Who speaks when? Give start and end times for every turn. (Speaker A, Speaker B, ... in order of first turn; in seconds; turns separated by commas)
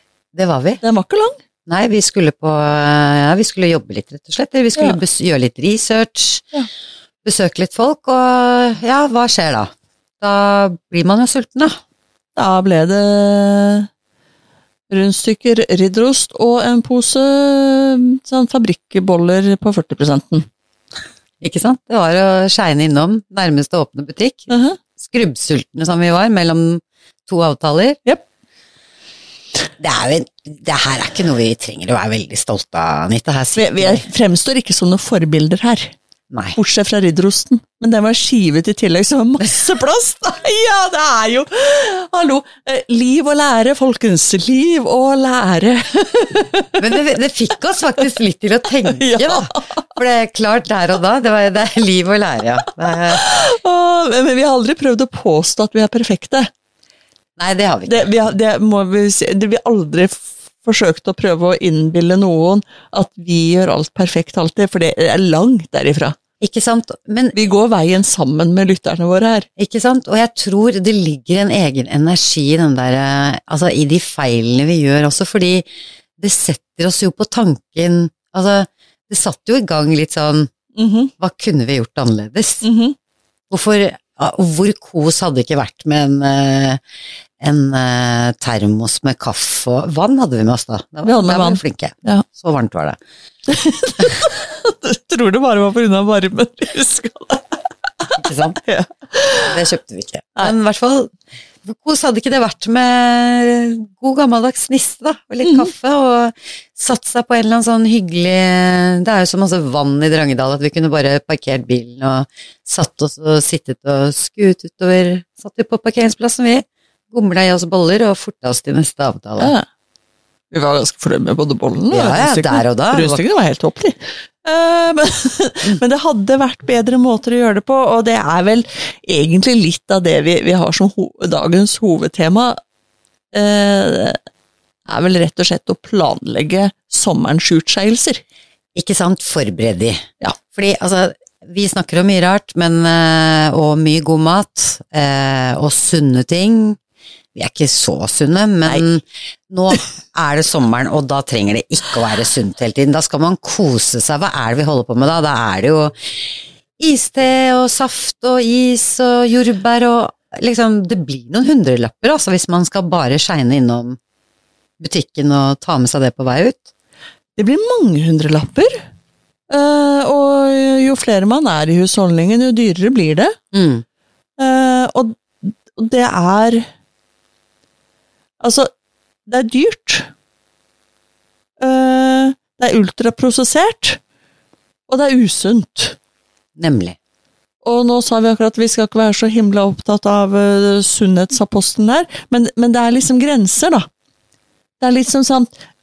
Speaker A: 0.3-0.8, Speaker B: 0.8-1.3, Speaker A: 1.7-6.5, Speaker A: 7.2-11.8, Speaker B: 12.3-13.9, Speaker B: 14.9-20.4, Speaker A: 21.4-28.0, Speaker B: 24.5-24.8, Speaker A: 29.8-34.0, Speaker B: 33.5-35.9, Speaker A: 36.3-36.6, Speaker B: 36.5-46.8, Speaker A: 46.8-53.3, Speaker B: 48.9-49.8, Speaker B: 53.1-56.5, Speaker A: 57.4-58.1, Speaker B: 57.9-66.2, Speaker A: 66.4-67.3, Speaker B: 67.3-69.5, Speaker A: 69.6-75.7, Speaker A: 76.2-80.5, Speaker B: 80.7-81.1, Speaker A: 81.2-82.7, Speaker B: 82.6-83.0, Speaker A: 83.5-86.8, Speaker A: 87.4-93.0, Speaker B: 91.0-92.2, Speaker B: 93.5-97.6, Speaker A: 98.2-98.6, Speaker B: 98.6-99.5, Speaker A: 99.4-101.1, Speaker A: 101.6-119.5, Speaker B: 105.4-105.7, Speaker B: 119.4-119.6, Speaker B: 120.5-132.6, Speaker A: 121.9-123.2, Speaker B: 133.3-134.2, Speaker B: 134.8-138.2, Speaker A: 138.7-146.8, Speaker A: 147.3-155.9, Speaker A: 156.8-164.0, Speaker A: 164.8-166.6, Speaker B: 167.4-168.8, Speaker B: 169.5-173.3, Speaker A: 173.5-173.8, Speaker B: 174.4-176.7, Speaker B: 178.4-178.7, Speaker B: 179.3-180.1, Speaker B: 181.6-184.0, Speaker B: 184.9-185.9, Speaker A: 186.6-186.9, Speaker B: 187.6-193.9, Speaker B: 194.8-195.5